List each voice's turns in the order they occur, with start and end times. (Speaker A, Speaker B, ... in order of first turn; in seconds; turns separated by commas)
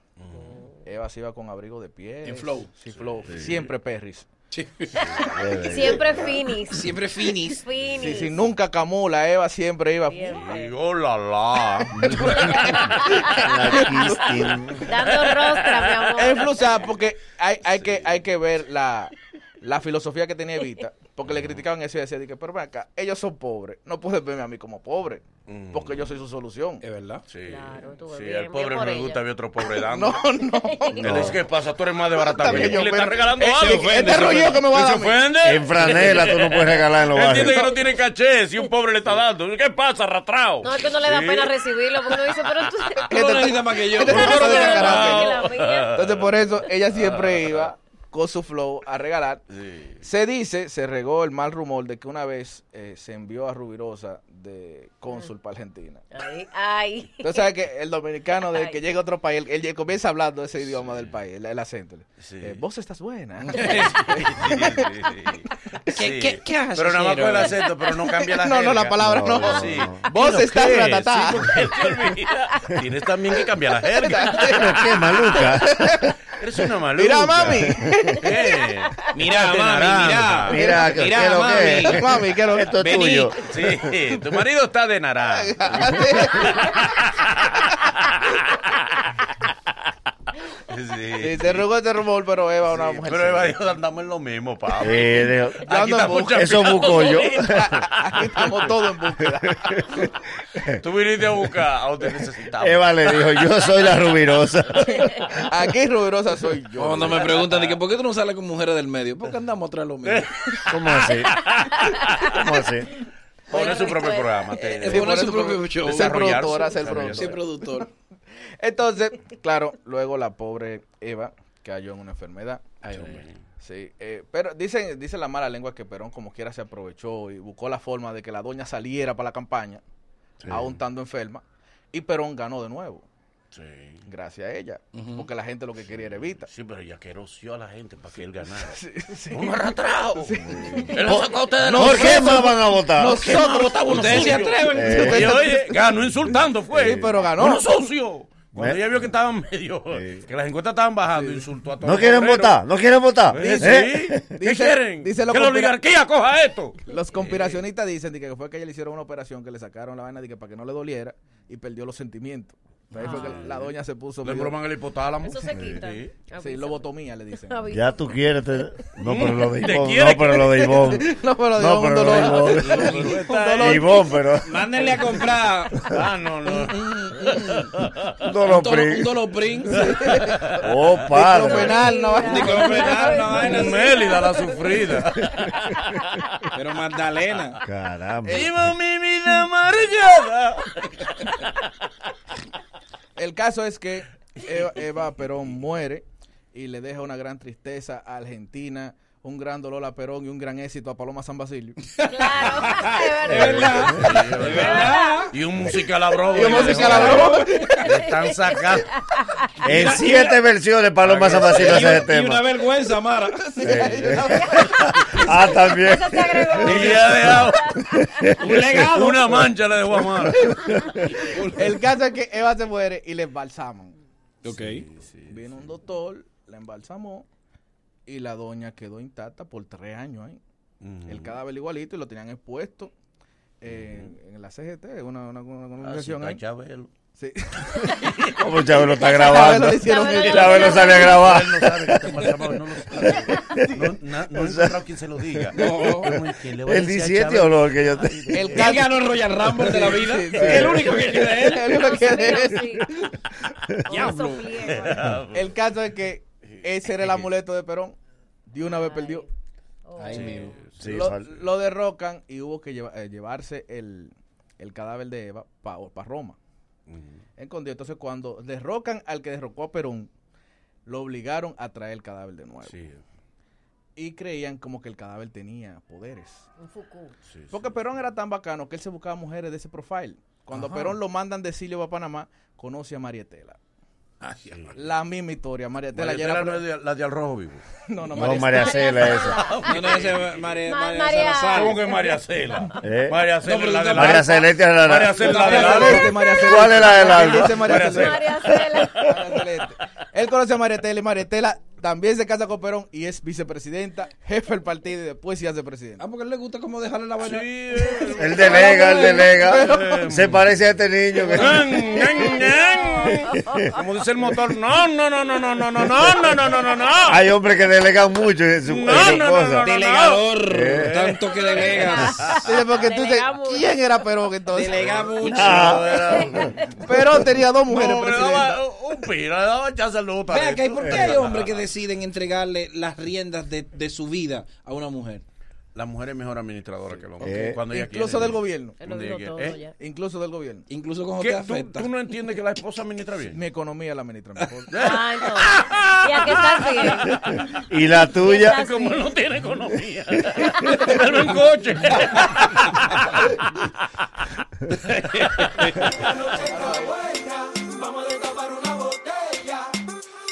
Speaker A: 0.2-0.6, Speaker B: 0.3-0.8, Speaker C: 0.8-4.3, Speaker D: 2.2-2.7, Speaker A: 2.9-3.7, Speaker D: 4.5-5.4, Speaker A: 4.9-6.2, Speaker B: 5.0-8.4, Speaker E: 5.3-6.5, Speaker D: 6.7-7.7, Speaker A: 7.7-8.3, Speaker C: 7.9-10.4, Speaker B: 10.1-10.8, Speaker A: 10.3-12.8, Speaker E: 11.9-15.0, Speaker C: 12.1-14.7, Speaker B: 12.2-13.9, Speaker B: 14.8-16.5, Speaker A: 14.9-17.0, Speaker C: 16.1-26.8, Speaker A: 17.6-18.2, Speaker A: 21.3-21.6, Speaker A: 25.5-26.1, Speaker D: 26.8-27.2, Speaker A: 27.3-30.4, Speaker B: 27.4-29.2, Speaker C: 29.9-31.4, Speaker B: 30.4-31.3, Speaker A: 30.9-43.1, Speaker E: 31.0-31.4, Speaker C: 32.1-35.3, Speaker E: 32.4-32.8, Speaker D: 33.5-34.7, Speaker E: 35.4-37.7, Speaker C: 37.4-37.7, Speaker B: 40.6-43.5, Speaker D: 43.1-45.1, Speaker C: 43.1-45.3, Speaker A: 43.9-47.7, Speaker B: 44.1-45.9, Speaker C: 45.9-49.4, Speaker A: 49.5-50.0, Speaker C: 50.0-56.1, Speaker B: 56.1-57.5, Speaker C: 57.2-65.9, Speaker B: 58.3-58.8, Speaker A: 60.6-61.1, Speaker A: 62.2-62.6, Speaker D: 63.4-64.1, Speaker A: 64.0-75.5, Speaker D: 65.9-67.6, Speaker C: 67.9-71.7, Speaker E: 69.0-70.1, Speaker C: 74.0-74.8, Speaker E: 74.4-76.2, Speaker C: 75.4-76.1, Speaker A: 76.3-80.8, Speaker C: 76.9-78.5, Speaker E: 77.4-78.1, Speaker D: 79.0-82.1, Speaker E: 80.5-83.8, Speaker C: 81.8-82.8, Speaker D: 82.7-83.4, Speaker A: 83.4-89.7, Speaker C: 85.3-86.8, Speaker C: 87.7-88.0, Speaker A: 90.5-91.7, Speaker C: 91.2-93.6, Speaker A: 92.7-98.4, Speaker E: 94.8-95.7, Speaker C: 95.7-100.1, Speaker E: 96.2-98.6, Speaker E: 99.7-100.0, Speaker A: 100.7-103.5, Speaker E: 102.6-105.2, Speaker C: 104.8-107.5, Speaker D: 106.7-110.3, Speaker A: 107.2-107.8, Speaker A: 110.0-112.6, Speaker E: 110.7-111.4, Speaker B: 111.2-112.1, Speaker E: 112.0-112.9, Speaker A: 113.5-117.4, Speaker B: 113.5-114.6, Speaker D: 114.6-117.9, Speaker C: 114.8-117.8, Speaker C: 118.6-129.8, Speaker A: 123.0-123.4, Speaker C: 130.5-133.1, Speaker A: 133.5-134.0, Speaker C: 134.1-136.5, Speaker D: 134.9-135.3, Speaker A: 135.9-142.4, Speaker C: 138.5-145.8, Speaker E: 140.4-143.2, Speaker A: 143.0-152.6, Speaker D: 143.3-145.2, Speaker E: 144.7-145.4, Speaker C: 146.7-147.7, Speaker E: 146.7-147.2, Speaker E: 149.9-150.3, Speaker C: 151.1-151.4, Speaker E: 151.8-154.3, Speaker A: 153.2-157.6, Speaker C: 153.3-155.7, Speaker C: 156.8-164.6, Speaker D: 162.9-163.4, Speaker B: 163.0-163.4, Speaker A: 163.1-163.7, Speaker A: 164.2-166.1, Speaker B: 165.2-168.1, Speaker E: 165.5-165.8, Speaker C: 166.4-167.6, Speaker E: 167.7-175.2, Speaker A: 169.0-171.2, Speaker C: 170.8-174.0, Speaker D: 172.1-173.8, Speaker A: 172.1-174.1, Speaker D: 174.4-175.9, Speaker A: 174.8-178.2, Speaker D: 176.4-177.7, Speaker E: 178.2-179.2, Speaker D: 178.2-179.9, Speaker A: 179.7-180.7, Speaker C: 179.7-180.4, Speaker E: 180.6-181.8, Speaker C: 181.1-183.3, Speaker D: 181.3-184.2, Speaker B: 181.4-185.1, Speaker A: 183.2-186.2, Speaker D: 186.5-187.6, Speaker E: 187.6-188.7, Speaker A: 188.2-191.7, Speaker C: 193.2-201.8, Speaker D: 201.9-205.3, Speaker B: 202.1-205.3, Speaker A: 202.3-202.9, Speaker E: 203.3-204.0, Speaker A: 203.7-208.9, Speaker B: 206.1-209.4, Speaker C: 206.3-207.8, Speaker D: 206.3-207.9, Speaker A: 209.6-209.9, Speaker D: 209.6-210.4, Speaker E: 209.6-212.5, Speaker A: 211.0-212.2, Speaker D: 211.5-213.7, Speaker C: 213.4-214.7, Speaker E: 213.6-218.5, Speaker B: 215.3-218.3, Speaker A: 216.5-220.5, Speaker D: 218.3-219.5, Speaker E: 220.2-221.2, Speaker C: 221.1-223.9, Speaker D: 221.2-221.8, Speaker D: 224.4-224.8, Speaker A: 224.4-225.7, Speaker C: 225.3-227.3, Speaker C: 228.1-230.4, Speaker A: 230.8-231.4, Speaker C: 231.1-232.9, Speaker C: 233.6-236.4, Speaker A: 233.7-234.1, Speaker A: 235.8-236.9, Speaker C: 237.1-238.1, Speaker A: 237.7-248.8, Speaker E: 238.4-242.1, Speaker B: 238.9-241.4, Speaker C: 239.1-240.8, Speaker E: 243.0-244.8, Speaker E: 245.3-248.7, Speaker D: 245.5-246.2, Speaker C: 248.3-253.1, Speaker D: 248.5-251.8, Speaker E: 250.3-250.9, Speaker B: 251.7-252.9, Speaker B: 253.9-255.2, Speaker D: 253.9-254.6, Speaker A: 254.5-255.6, Speaker C: 255.3-259.2, Speaker A: 256.4-257.3, Speaker B: 258.6-259.3, Speaker B: 259.9-260.5, Speaker D: 260.0-260.6, Speaker A: 260.1-261.1, Speaker E: 260.8-261.3, Speaker C: 260.8-266.4, Speaker A: 266.9-267.2, Speaker C: 267.4-270.1, Speaker C: 270.9-272.8, Speaker A: 272.6-273.0, Speaker C: 273.9-276.5, Speaker B: 276.6-277.1, Speaker A: 277.2-278.0, Speaker C: 277.5-283.6, Speaker D: 280.5-280.9, Speaker D: 284.2-284.7, Speaker A: 284.5-284.8, Speaker C: 284.7-286.6, Speaker A: 285.9-287.6, Speaker C: 287.9-288.8, Speaker E: 288.1-289.4, Speaker B: 288.3-290.1, Speaker A: 288.9-290.7, Speaker D: 289.6-291.9, Speaker B: 290.6-292.7, Speaker A: 291.5-296.8, Speaker E: 292.8-293.2, Speaker D: 293.4-294.5, Speaker E: 293.9-295.3, Speaker D: 295.1-296.1, Speaker C: 295.3-298.2, Speaker E: 296.1-297.7, Speaker A: 297.4-299.2, Speaker B: 297.7-299.2, Speaker E: 298.4-299.2, Speaker C: 299.1-306.1, Speaker D: 299.2-299.7, Speaker D: 306.0-309.6, Speaker A: 307.2-310.5, Speaker E: 308.1-313.7, Speaker C: 309.4-310.0, Speaker D: 311.2-312.2, Speaker A: 311.3-317.2, Speaker B: 312.2-313.8, Speaker E: 317.1-319.7, Speaker A: 318.6-322.4, Speaker D: 318.9-322.4, Speaker E: 320.5-321.0, Speaker B: 321.4-323.7, Speaker C: 322.4-325.2, Speaker D: 324.5-325.9, Speaker A: 324.7-331.7, Speaker E: 325.2-326.3, Speaker B: 325.9-326.7, Speaker C: 326.6-328.6, Speaker D: 330.3-335.2, Speaker A: 335.7-339.6, Speaker E: 337.2-337.6, Speaker C: 337.7-338.8, Speaker B: 338.8-339.7, Speaker C: 339.6-340.7, Speaker D: 340.7-341.9, Speaker A: 341.2-343.4, Speaker C: 343.3-344.7, Speaker A: 344.7-347.4, Speaker B: 344.7-347.2, Speaker D: 345.3-346.4, Speaker E: 347.2-348.6, Speaker B: 348.1-349.2, Speaker A: 348.4-353.8, Speaker B: 350.4-350.8, Speaker A: 354.6-356.5, Speaker D: 355.6-359.7, Speaker C: 356.5-356.9